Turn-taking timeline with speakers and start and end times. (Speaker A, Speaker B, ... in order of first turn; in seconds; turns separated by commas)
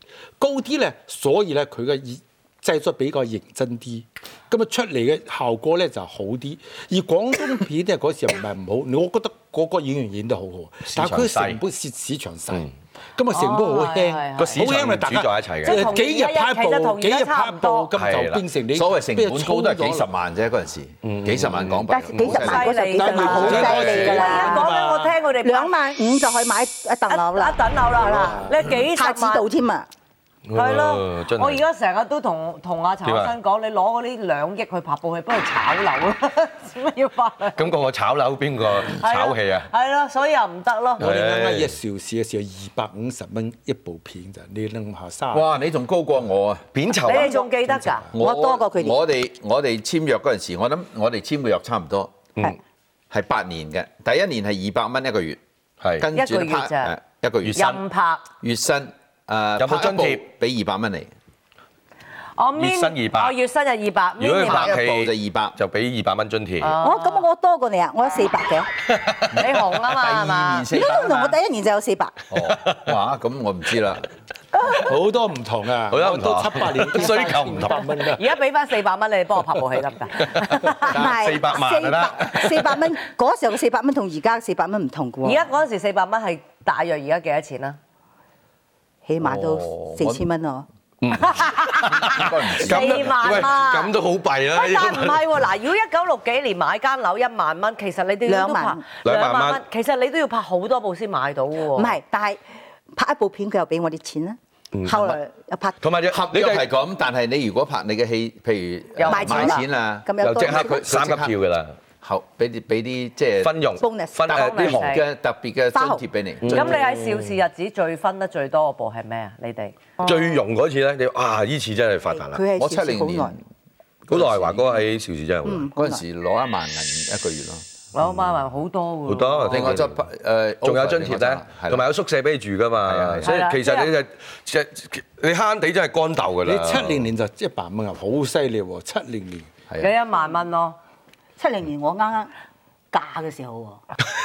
Speaker A: 0.4-20.1, Speaker B: 10.9-11.6, Speaker C: 13.3-14.7, Speaker B: 14.4-15.8, Speaker C: 15.7-17.9, Speaker B: 17.9-18.4, Speaker D: 18.7-22.7, Speaker B: 21.0-22.6, Speaker E: 21.9-24.7, Speaker C: 22.3-25.7, Speaker A: 22.9-25.2, Speaker B: 23.3-24.4, Speaker E: 25.4-27.6, Speaker C: 27.1-29.4, Speaker A: 28.1-28.6, Speaker E: 28.7-29.9, Speaker B: 30.5-31.6, Speaker C: 30.5-37.7, Speaker B: 33.0-33.3, Speaker B: 37.5-39.7, Speaker C: 39.0-41.0, Speaker A: 41.0-45.4, Speaker B: 41.0-41.8, Speaker D: 45.3-46.6, Speaker B: 46.7-47.4, Speaker C: 47.0-48.1, Speaker E: 47.1-47.4, Speaker A: 47.8-48.1, Speaker D: 48.1-52.1, Speaker E: 48.2-49.0, Speaker D: 53.1-55.4, Speaker D: 56.0-57.8, Speaker C: 56.1-56.9, Speaker B: 57.5-57.8, Speaker C: 57.5-58.2, Speaker D: 58.4-61.1, Speaker B: 59.6-60.2, Speaker C: 62.4-64.8, Speaker B: 62.5-63.3, Speaker B: 64.2-66.7, Speaker D: 64.4-65.5, Speaker C: 66.6-67.2, Speaker E: 66.8-68.7, Speaker B: 68.9-69.3, Speaker C: 69.3-70.7, Speaker D: 69.4-71.4, Speaker E: 70.7-72.2, Speaker D: 72.3-74.1, Speaker B: 72.3-72.9, Speaker A: 74.7-78.3, Speaker B: 75.9-77.8, Speaker C: 78.0-80.9, Speaker B: 80.2-82.8, Speaker E: 80.9-85.5, Speaker C: 85.2-87.8, Speaker E: 89.0-90.7, Speaker D: 89.2-90.3, Speaker B: 91.0-95.2, Speaker C: 91.2-93.9, Speaker D: 91.9-93.6, Speaker C: 94.5-102.0, Speaker E: 98.2-98.8, Speaker B: 99.0-99.6, Speaker E: 101.8-102.4, Speaker E: 102.9-105.8, Speaker B: 104.7-105.2, Speaker B: 105.8-106.7, Speaker D: 106.1-111.3, Speaker B: 109.0-109.6, Speaker E: 109.1-110.8, Speaker B: 110.2-111.8, Speaker D: 112.0-113.6, Speaker B: 113.4-115.0, Speaker E: 113.8-114.5, Speaker D: 114.3-116.8, Speaker C: 114.3-115.0, Speaker E: 115.7-116.0, Speaker B: 116.4-117.3, Speaker C: 116.5-119.9, Speaker B: 120.0-122.4, Speaker E: 122.1-123.3, Speaker D: 122.6-123.4, Speaker D: 124.0-124.8, Speaker B: 124.1-125.7, Speaker E: 125.4-126.0, Speaker D: 125.7-127.6, Speaker C: 127.9-129.8, Speaker B: 128.0-128.3, Speaker B: 129.1-130.0, Speaker D: 129.5-131.8, Speaker B: 130.6-137.0, Speaker D: 132.8-133.3, Speaker C: 133.2-133.9, Speaker A: 136.4-139.5, Speaker C: 139.8-140.8, Speaker E: 141.4-142.3, Speaker E: 142.9-143.8